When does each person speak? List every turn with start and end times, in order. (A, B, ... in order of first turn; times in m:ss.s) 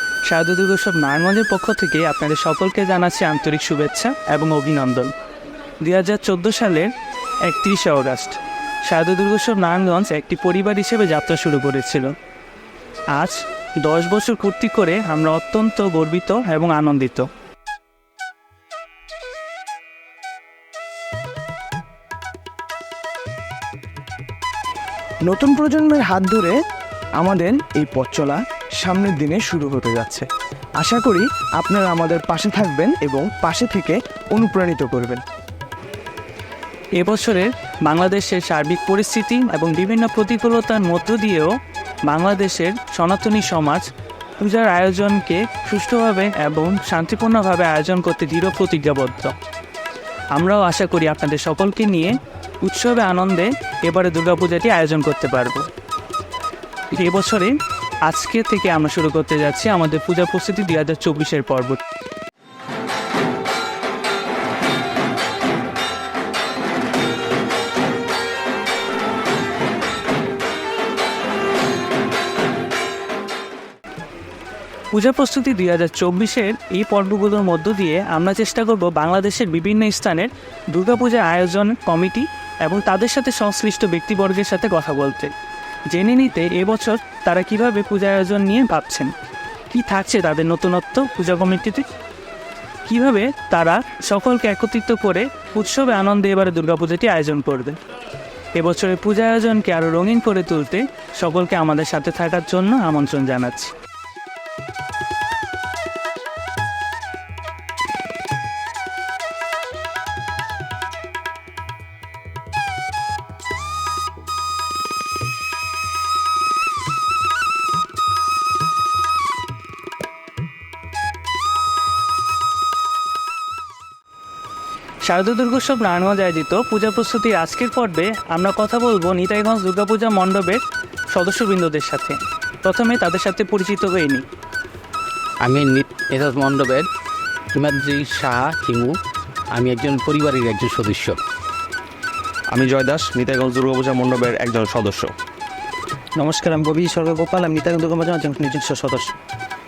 0:00.2-0:05.1 A
0:05.8-0:06.9 A
0:07.5-0:12.1 A
0:13.2-0:17.3 A
0:25.3-0:26.5 B
0:27.2-0:30.2 B
0:30.8-0:35.2 B
0:37.0-0:41.5 A
0:42.1-0:43.9 A
0:44.4-0:49.4 A
0:50.4-0:55.6 A
0:56.9-0:57.5 A
0:58.1-1:01.8 A
1:14.9-1:25.3 A
1:25.9-1:29.1 A
1:29.7-1:31.8 A
1:32.8-1:37.8 A
1:38.5-1:43.7 A
2:05.0-2:10.6 A
2:11.1-2:14.2 A
2:15.4-2:16.9 C
2:17.5-2:19.0 C
2:19.5-2:21.2 C
2:22.5-2:25.1 D
2:26.2-2:29.1 E